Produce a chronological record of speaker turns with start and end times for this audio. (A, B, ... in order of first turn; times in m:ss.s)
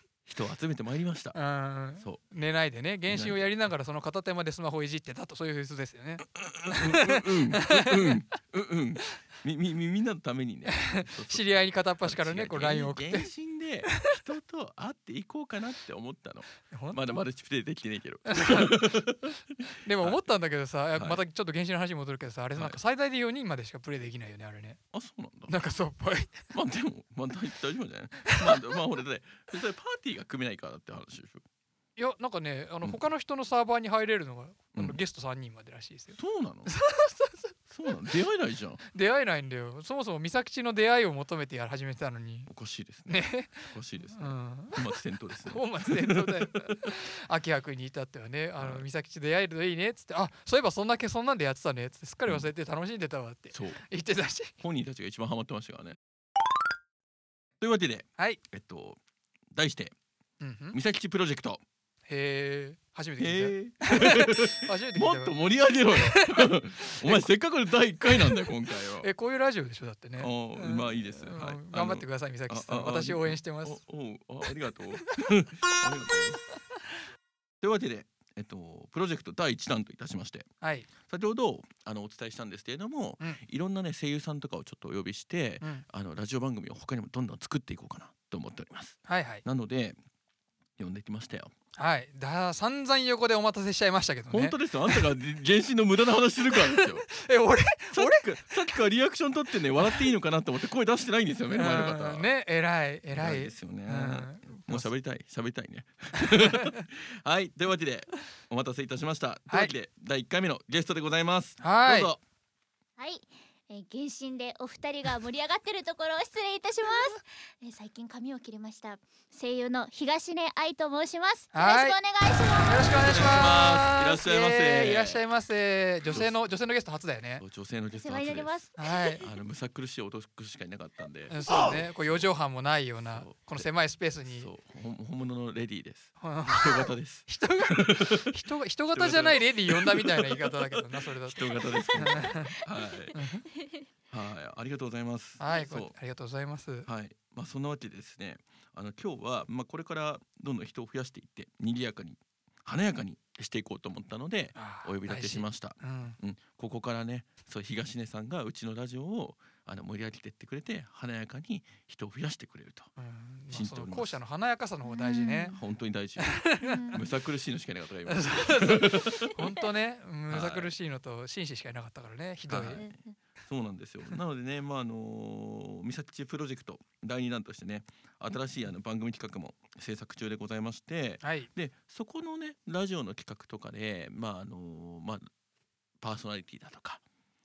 0:00.2-0:01.4 A
0:01.4-0:08.2 B
0:03.1-0:03.5 A
0:06.4-0:20.2 A
0:10.8-0:13.3 B
0:16.7-0:17.0 B
0:18.3-0:19.1 B
0:19.8-0:24.8 B
0:20.9-0:21.2 A
0:22.6-0:22.8 A
0:24.9-0:25.6 A
0:25.5-0:26.5 B
0:26.5-0:31.4 A
0:32.0-0:38.0 B
0:36.1-0:36.7 A
0:37.7-0:38.8 A
0:38.9-0:42.5 B
0:42.5-0:46.8 A
0:43.1-0:54.5 B
0:48.6-0:48.9 A
0:53.5-0:53.8 A
0:54.6-0:56.0 A
0:57.6-0:59.0 A
0:59.5-1:00.0 A
1:00.4-1:00.8 B
1:00.7-1:01.6 A
1:02.1-1:07.3 B
1:03.2-1:09.1 A
1:08.0-1:13.8 B
1:10.2-1:16.4 A
1:17.6-1:20.5 A
1:20.6-1:20.9 B
1:21.0-1:30.0 A
1:29.1-1:29.4 B
1:30.8-1:31.5 A
1:31.8-1:35.1 B
1:34.3-1:37.1 A
1:36.5-1:38.8 B
1:37.9-1:42.3 A
1:41.5-1:44.9 B
1:43.1-1:52.2 A
1:46.2-1:46.9 B
1:51.6-1:52.1 B
1:53.0-2:03.2 C
2:01.5-2:02.0 B
2:02.5-2:07.4 B
2:02.9-2:05.3 A
2:06.1-2:06.4 A
2:07.4-2:08.6 A
2:07.9-2:09.3 C
2:08.8-2:09.2 B
2:09.2-2:12.3 A
2:11.3-2:14.5 B
2:13.1-2:13.7 A
2:14.2-2:18.4 A
2:16.2-2:22.6 B
2:18.9-2:23.2 A
2:23.1-2:23.5 B
2:23.2-2:23.8 C
2:24.1-2:26.0 A
2:25.4-2:26.9 B
2:26.8-2:42.9 A
2:34.6-2:36.2 B
2:43.0-2:45.6 B
2:43.5-2:44.2 A
2:44.8-2:45.6 C
2:45.5-2:49.4 A
2:46.2-2:47.0 B
2:46.6-2:47.0 C
2:48.1-2:52.8 B
2:50.3-2:50.7 A
2:52.5-3:05.3 A
2:52.8-2:53.1 C
3:01.2-3:01.5 B
3:06.0-3:07.0 A